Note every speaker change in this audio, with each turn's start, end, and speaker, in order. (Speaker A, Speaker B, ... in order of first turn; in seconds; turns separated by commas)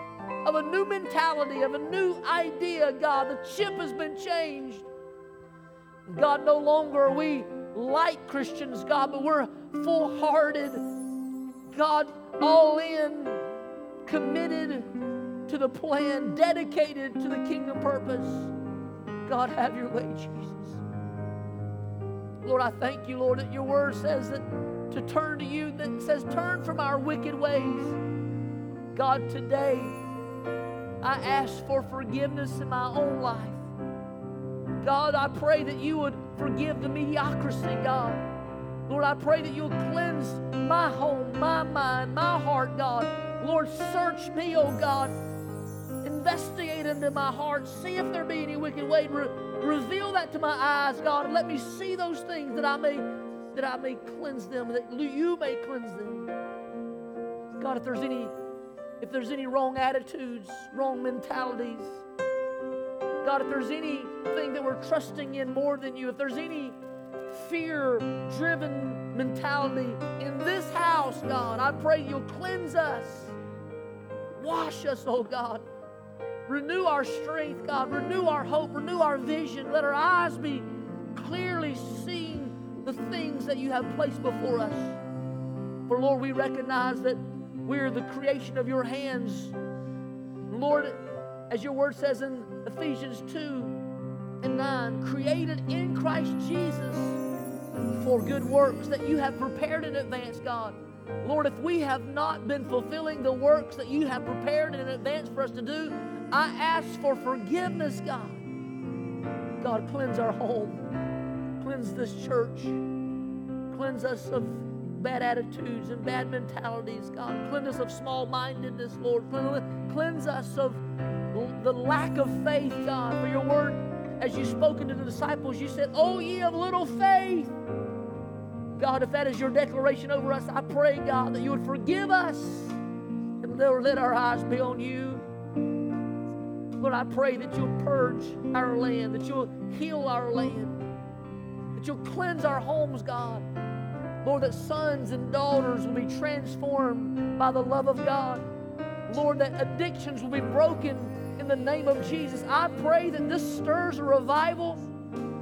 Speaker A: 0.4-4.9, Speaker A: 6.1-10.8, Speaker A: 11.7-13.4, Speaker A: 14.1-14.9, Speaker A: 15.5-18.5, Speaker A: 19.2-20.8, Speaker A: 22.4-28.0, Speaker A: 28.9-30.0, Speaker A: 31.0-33.7, Speaker A: 34.8-38.3, Speaker A: 38.9-45.1, Speaker A: 46.0-56.3, Speaker A: 57.6-58.4, Speaker A: 59.0-62.0, Speaker A: 63.2-73.3, Speaker A: 74.4-75.7, Speaker A: 76.5-85.0, Speaker A: 85.9-89.6, Speaker A: 90.5-93.8, Speaker A: 94.4-97.2, Speaker A: 98.0-108.4, Speaker A: 109.6-110.9, Speaker A: 111.6-112.8, Speaker A: 113.7-127.5, Speaker A: 128.8-132.8, Speaker A: 133.4-135.2, Speaker A: 136.8-140.8, Speaker A: 141.8-143.5, Speaker A: 144.2-148.5, Speaker A: 149.1-154.9